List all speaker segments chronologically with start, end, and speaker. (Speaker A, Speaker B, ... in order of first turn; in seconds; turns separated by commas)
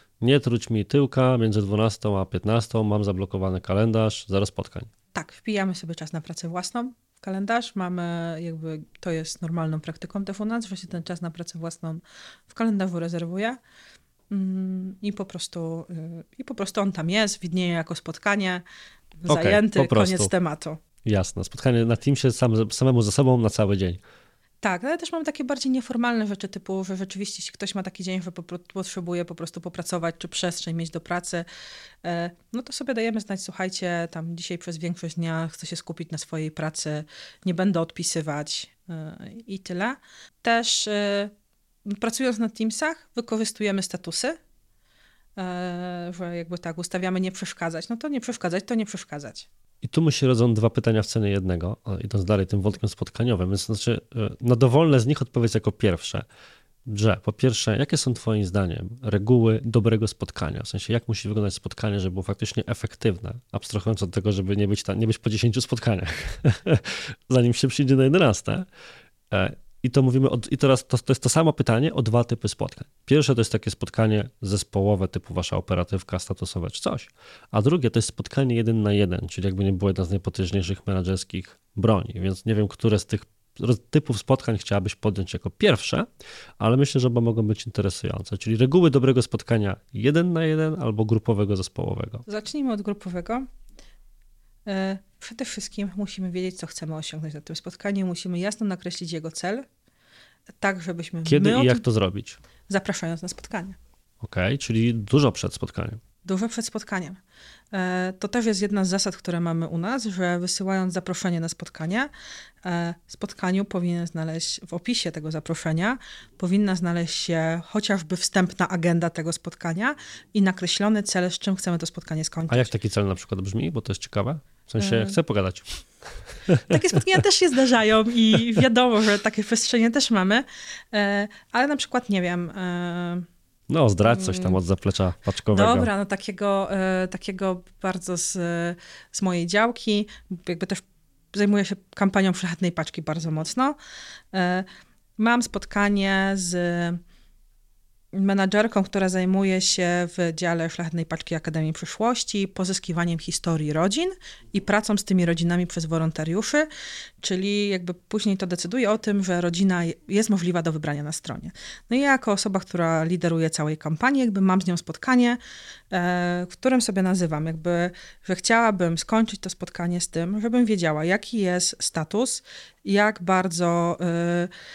Speaker A: 0.2-4.9, Speaker B: 5.1-13.6, Speaker B: 14.3-18.6, Speaker B: 19.2-20.8, Speaker A: 19.3-20.3, Speaker A: 21.0-24.0, Speaker B: 24.6-31.4, Speaker B: 32.0-41.3, Speaker B: 41.8-44.4, Speaker B: 45.4-49.5, Speaker A: 49.8-56.2, Speaker A: 56.8-68.7, Speaker A: 69.3-86.0, Speaker A: 86.6-92.2, Speaker B: 92.3-93.5, Speaker B: 94.7-99.6, Speaker B: 100.6-101.8, Speaker A: 101.2-102.4, Speaker B: 102.7-103.8, Speaker A: 104.2-106.0, Speaker B: 106.2-107.2, Speaker B: 107.7-112.1, Speaker B: 112.6-122.7, Speaker A: 122.5-125.8, Speaker B: 124.8-125.2, Speaker A: 126.5-127.0, Speaker B: 126.7-133.3, Speaker A: 133.7-135.9, Speaker B: 134.0-134.6, Speaker B: 135.5-143.8, Speaker B: 144.3-144.7, Speaker B: 145.2-147.0, Speaker B: 148.1-156.7, Speaker B: 157.2-165.4, Speaker B: 165.9-174.5